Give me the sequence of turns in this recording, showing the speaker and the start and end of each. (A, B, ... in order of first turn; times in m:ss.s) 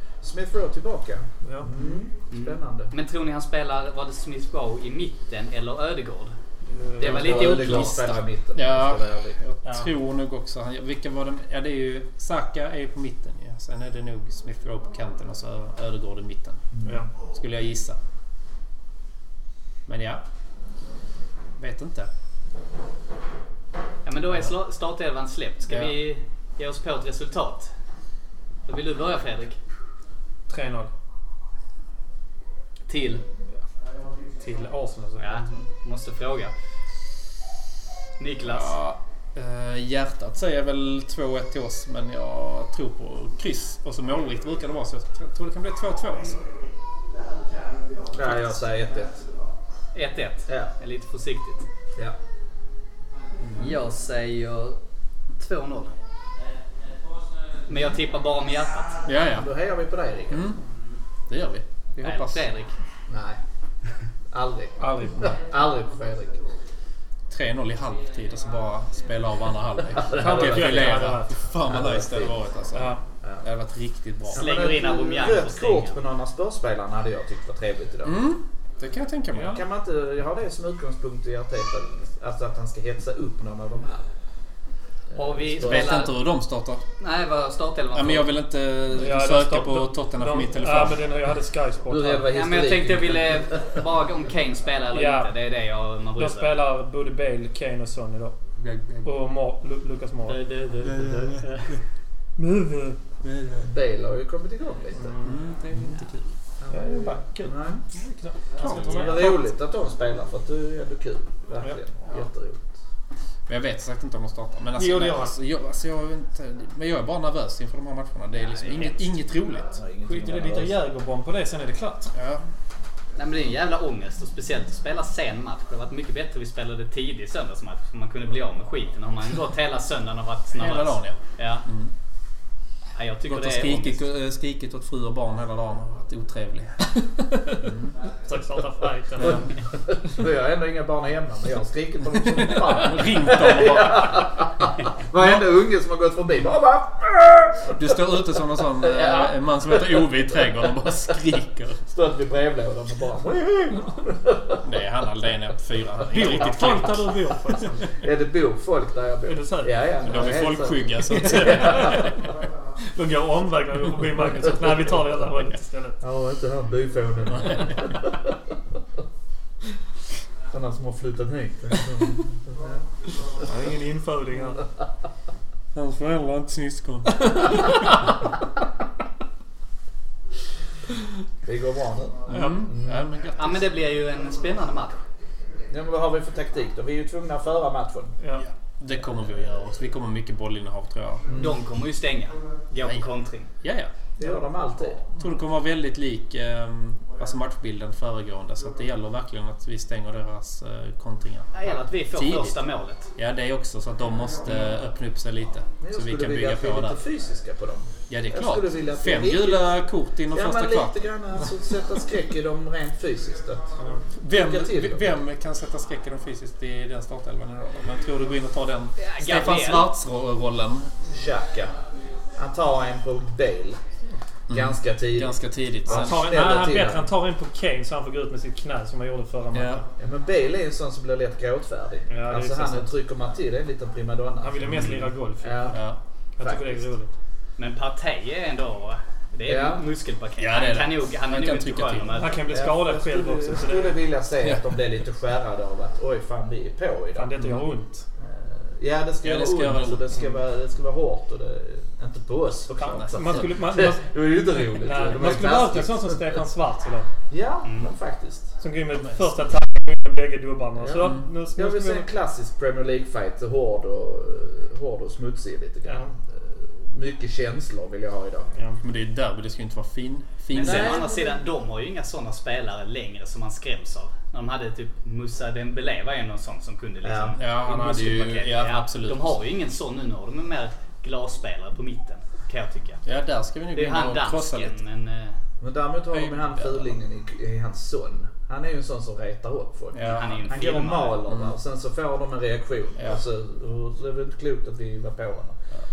0:00.2-0:02.9 A
0:01.4-0:01.7 B
0:02.3-0:06.4 C
0:06.6-0:07.2 B
0:07.0-0:08.0 C
0:07.0-0:09.4 A
0:07.0-0:16.7 D
0:09.6-0:09.9 B
0:16.7-0:17.0 A
0:16.8-0:17.1 B
0:17.3-0:18.0 D
0:19.8-0:20.2 D
0:21.6-0:22.1 D
0:24.0-0:27.7 C
0:25.7-0:25.9 D
0:28.6-0:29.6 C
0:30.5-0:30.9 B
0:32.9-0:33.2 C
0:34.4-0:35.4 B
0:35.2-0:36.5 C
0:38.2-0:38.7 C
0:38.4-0:46.4 D
0:48.1-0:49.2 A
0:49.9-0:51.6 C
0:53.5-0:54.8 C
0:55.4-0:55.9 C
0:57.7-0:59.0 C
0:59.0-0:59.5 D
0:59.3-1:00.5 A
1:00.3-1:00.6 D
1:01.3-1:02.4 D
1:02.0-1:02.7 C
1:03.1-1:03.4 A
1:04.3-1:06.4 A
1:04.8-1:05.3 B
1:07.3-1:14.5 D
1:09.9-1:11.1 A
1:10.1-1:11.4 B
1:11.6-1:12.4 A
1:12.7-1:13.0 B
1:13.2-1:13.5 A
1:14.3-1:18.3 A
1:14.3-1:15.9 C
1:18.0-1:19.6 D
1:19.3-1:19.6 B
1:19.4-1:24.0 A
1:25.1-1:26.0 A
1:25.1-1:26.1 C
1:25.6-1:26.8 D
1:27.0-1:28.3 C
1:27.9-1:31.0 D
1:28.9-1:32.3 B
1:31.9-1:33.7 A
1:32.3-1:36.5 C
1:34.9-1:35.3 B
1:36.2-1:38.4 B
1:38.6-1:39.1 D
1:39.0-1:40.4 B
1:40.3-1:41.7 C
1:40.8-1:41.8 D
1:42.4-1:43.0 B
1:43.2-1:43.7 D
1:43.6-1:45.2 A
1:45.0-1:45.4 B
1:45.2-1:46.3 D
1:45.7-1:46.0 A
1:46.6-1:47.8 A
1:46.7-1:49.2 B
1:48.6-1:49.4 D
1:48.7-1:52.7 A
1:53.5-1:59.8 D
1:54.8-1:55.3 B
1:58.4-1:58.9 C
1:59.7-2:00.8 A
2:00.1-2:02.1 B
2:02.1-2:02.4 D
2:03.2-2:11.6 C
2:10.6-2:11.9 D
2:12.9-2:14.0 C
2:13.3-2:17.0 D
2:17.6-2:17.9 D
2:18.2-2:19.5 B
2:19.2-2:19.5 D
2:19.2-2:30.9 A
2:22.3-2:24.4 D
2:25.2-2:25.4 D
2:27.7-2:31.8 D
2:31.9-2:34.6 A
2:34.6-2:37.1 D
2:36.1-2:37.9 B
2:38.0-2:42.1 A
2:39.2-2:39.7 B
2:40.0-2:42.2 D
2:41.1-2:42.2 B
2:42.9-2:46.0 B
2:46.0-2:48.2 A
2:47.3-2:47.8 D
2:50.5-2:52.8 A
2:53.4-2:54.6 B
2:55.7-2:57.2 D
2:57.1-2:57.8 B
3:01.4-3:03.1 A
3:02.3-3:03.6 D
3:02.3-3:02.6 B
3:03.4-3:05.0 C
3:05.7-3:08.1 A
3:08.4-3:11.2 D
3:11.3-3:11.6 A
3:11.3-3:13.5 C
3:12.8-3:13.1 D
3:13.6-3:13.9 D
3:14.2-3:15.0 A
3:15.2-3:22.6 D
3:21.5-3:23.1 C
3:23.2-3:27.0 D
3:25.8-3:29.8 A
3:28.1-3:31.0 D
3:30.3-3:33.7 A
3:34.2-3:40.9 D
3:34.2-3:35.1 A
3:39.0-3:39.9 C
3:41.1-3:41.7 A
3:42.3-3:43.8 A
3:44.5-3:46.3 D
3:44.5-3:47.1 A
3:45.9-3:49.8 B
3:49.5-3:49.8 D
3:50.0-3:55.8 A
3:52.1-3:52.9 B
3:54.4-3:55.7 B
3:55.7-3:56.0 D
3:56.4-3:57.1 B
3:56.4-3:56.9 A
3:57.6-4:02.4 C
3:59.4-3:59.8 A
4:00.4-4:02.2 D
4:02.1-4:04.0 B
4:02.5-4:07.6 A
4:04.4-4:04.8 D
4:07.1-4:08.0 B
4:08.2-4:16.4 A
4:09.2-4:10.1 D
4:12.8-4:14.0 B
4:12.8-4:13.4 D
4:14.8-4:17.1 B
4:17.3-4:18.5 A
4:17.6-4:17.9 C
4:18.6-4:22.1 B
4:19.0-4:19.3 D
4:20.8-4:28.5 A
4:25.8-4:26.1 B
4:28.8-4:31.0 D
4:30.5-4:43.0 C
4:30.5-4:31.4 A
4:37.0-4:37.4 A
4:37.4-4:39.4 D
4:43.0-4:44.8 D
4:43.7-4:45.4 C
4:45.6-4:55.6 A
4:46.1-4:46.9 D
4:49.9-4:50.6 D
4:50.0-4:51.2 C
4:51.3-4:51.5 D